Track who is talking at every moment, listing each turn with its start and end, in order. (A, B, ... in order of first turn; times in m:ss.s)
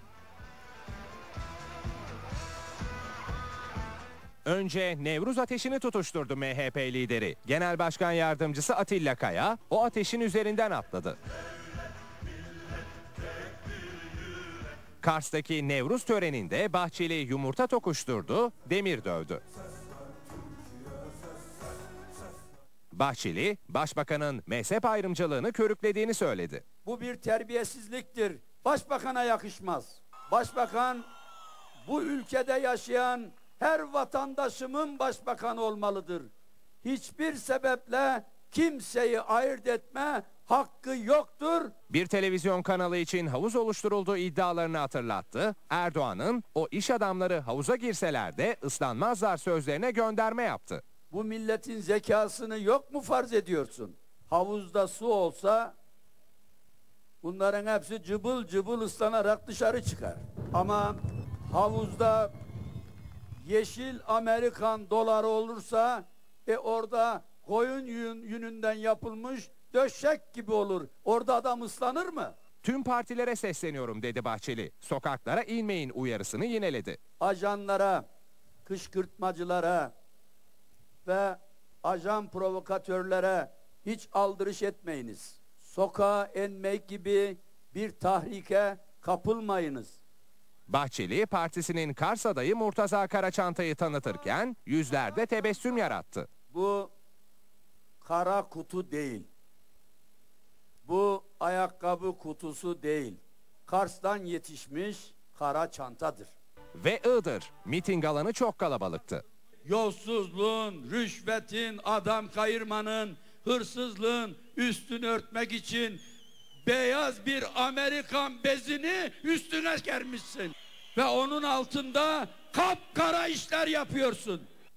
0:04.4-0:11.2 A
0:15.0-0:19.4 A
0:22.9-0:26.6 A
0:26.8-0:31.1 B
0:31.8-0:36.3 B
0:36.8-0:41.7 B
0:41.9-0:50.8 A
0:51.1-0:55.8 B
0:57.2-1:02.3 B
1:03.4-1:12.3 B
1:12.6-1:17.0 A
1:17.2-1:18.0 B
1:18.6-1:19.9 B
1:21.0-1:30.0 B
1:30.7-1:36.3 A
1:36.5-1:36.9 B
1:38.0-1:39.3 B
1:40.9-1:46.3 B
1:46.8-1:49.2 A
1:49.7-1:56.0 B
1:56.6-2:04.5 B